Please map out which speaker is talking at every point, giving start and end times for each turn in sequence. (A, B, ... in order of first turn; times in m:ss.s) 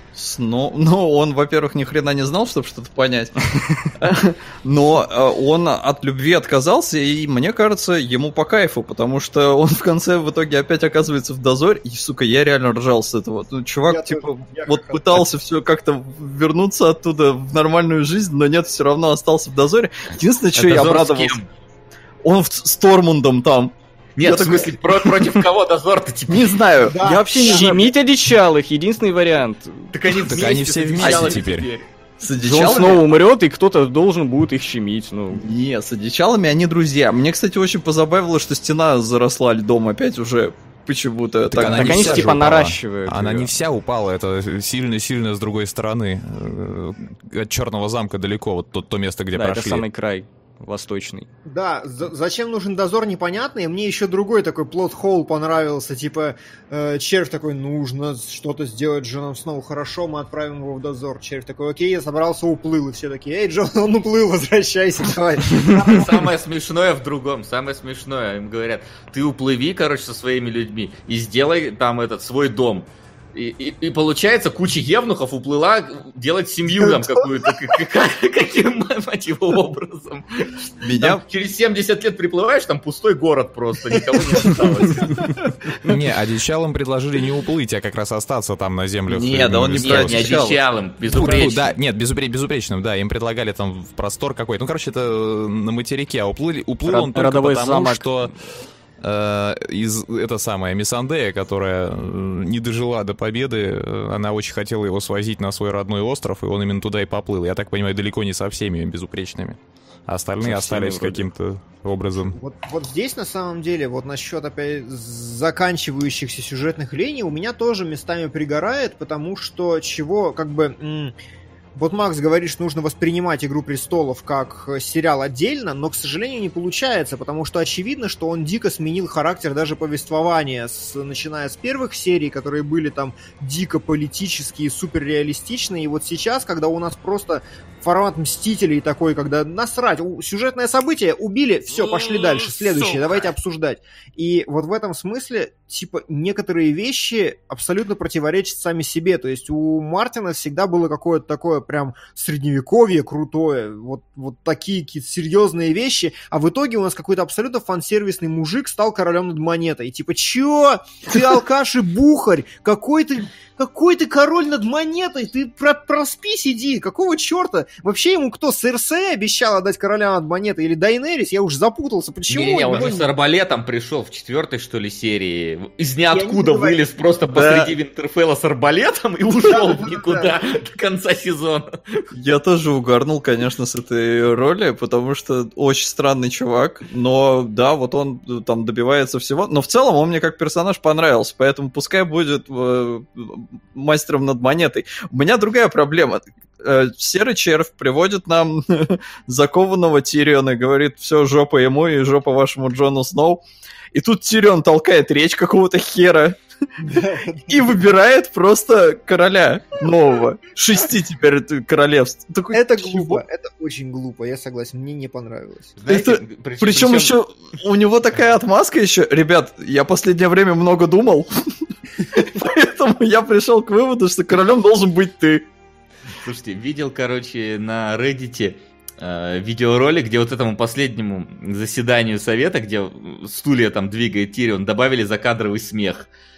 0:00.1-0:21.4 A
0:13.9-0:15.2 B
0:20.6-0:21.5 C
0:22.2-0:25.3 A
0:24.2-0:26.6 C
0:26.3-0:27.9 A
0:26.8-0:27.7 B
0:27.3-0:30.4 D
0:29.9-0:31.8 C
0:30.2-0:31.7 E
0:31.0-0:31.4 A
0:32.2-0:33.0 A
0:32.4-0:35.4 D
0:35.3-0:42.3 A
0:41.5-0:49.8 E
0:41.5-0:43.5 D
0:49.3-0:51.3 D
0:51.4-1:06.3 B
1:05.5-1:25.4 C
1:16.7-1:17.1 B
1:20.8-1:21.2 A
1:23.9-1:25.0 B
1:25.8-1:30.4 E
1:29.1-1:30.6 A
1:29.8-1:31.7 C
1:31.1-1:38.3 E
1:36.8-1:38.3 D
1:39.0-1:52.4 E
1:50.4-1:51.2 D
1:52.2-2:01.1 B
2:01.7-2:53.1 B
2:52.3-3:02.0 C
2:56.1-2:56.8 B
2:57.3-2:57.7 A
2:59.4-3:00.3 B
3:02.1-3:23.4 A
3:23.9-3:26.4 A
3:26.8-3:27.7 B
3:27.5-3:33.2 A
3:32.5-3:35.8 B
3:35.8-3:37.1 C
3:35.9-3:41.6 A
3:42.1-3:45.5 A
3:46.1-3:56.1 C